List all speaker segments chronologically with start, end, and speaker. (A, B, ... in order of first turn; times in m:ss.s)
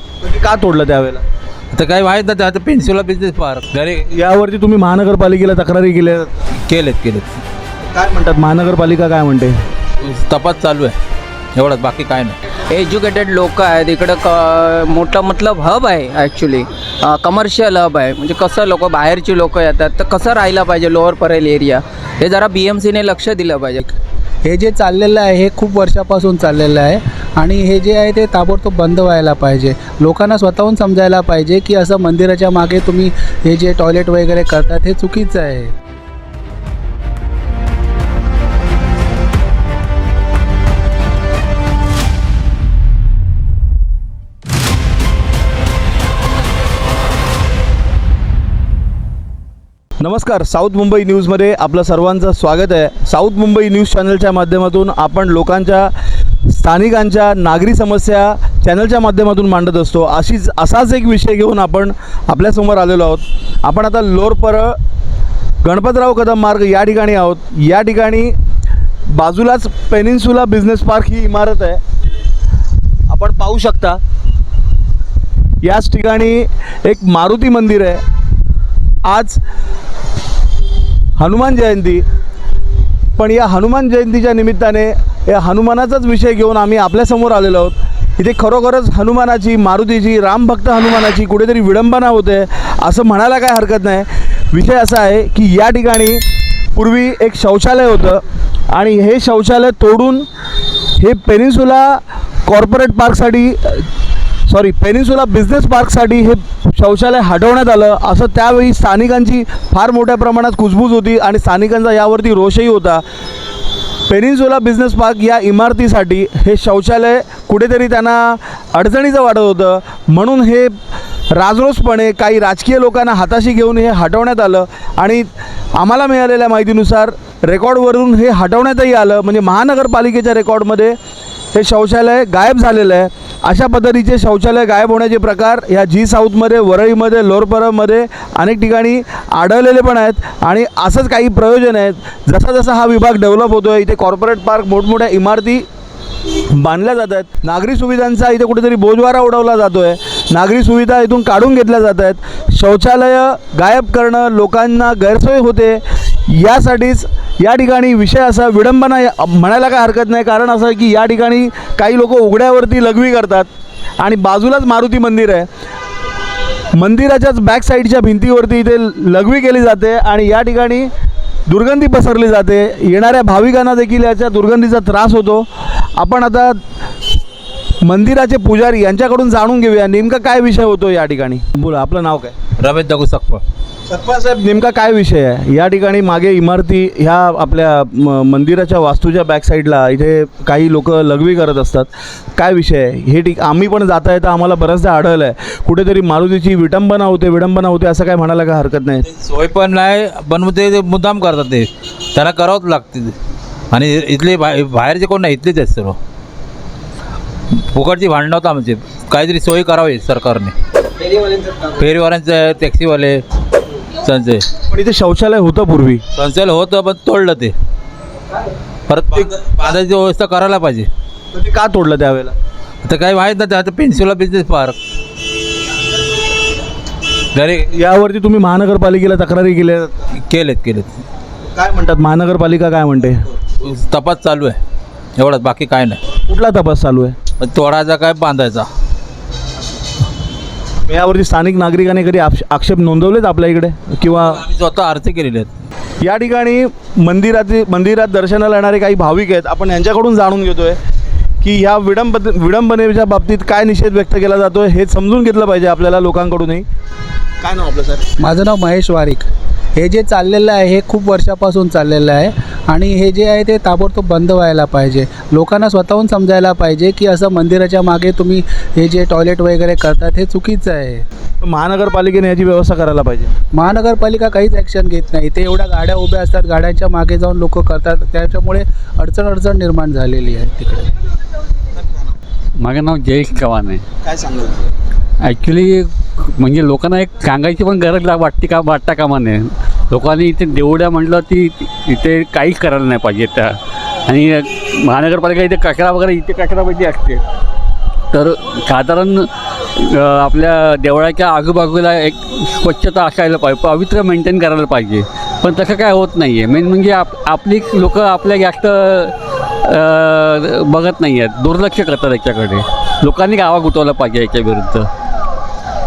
0:00.2-0:01.2 A
0:01.8-0:04.0 B
0:04.0-0:06.4 A
0:06.7-0:07.4 B
0:07.9-0:09.5 A
0:10.0-0:10.9 B
0:11.6-0:12.4 B
0:12.7-0:24.0 C
0:24.4-0:35.7 D
0:50.0-0:55.9 A
0:56.4-1:04.8 A
1:05.6-1:08.3 A
1:09.1-1:11.8 A
1:13.1-1:14.0 A
1:15.6-1:18.0 A
1:19.0-1:19.4 A
1:21.2-1:22.0 A
1:23.2-1:36.2 A
1:36.7-1:40.3 A
1:41.0-1:43.9 A
1:44.5-1:53.0 A
1:54.1-2:00.7 A
2:01.3-2:11.0 A
2:11.5-2:25.6 A
2:26.5-2:45.5 A
2:46.7-2:50.9 A
2:51.5-2:56.6 A
2:57.8-3:02.4 A
3:02.6-3:03.3 B
3:03.9-3:19.0 A
3:19.2-3:23.1 B
3:23.7-3:26.0 B
3:27.5-3:30.5 B
3:31.8-3:33.2 B
3:34.0-3:34.4 B
3:34.7-3:36.0 A
3:36.2-3:37.5 B
3:38.9-3:40.8 B
3:41.3-3:42.3 A
3:42.8-3:44.7 B
3:47.7-3:50.0 A
3:50.2-3:50.9 B
3:51.6-3:53.3 A
3:53.6-3:54.5 B
3:55.2-3:56.0 B
3:56.3-3:57.2 A
3:57.4-3:58.7 B
4:00.8-4:04.4 A
4:04.5-4:05.5 B
4:06.0-4:10.8 A
4:11.4-4:16.6 A
4:17.4-4:18.1 A
4:18.2-4:31.0 D
4:31.4-4:33.3 A
4:33.5-4:40.9 D
4:42.6-4:43.8 E
4:44.0-4:44.6 A
4:45.2-4:57.2 E
4:58.1-5:14.9 E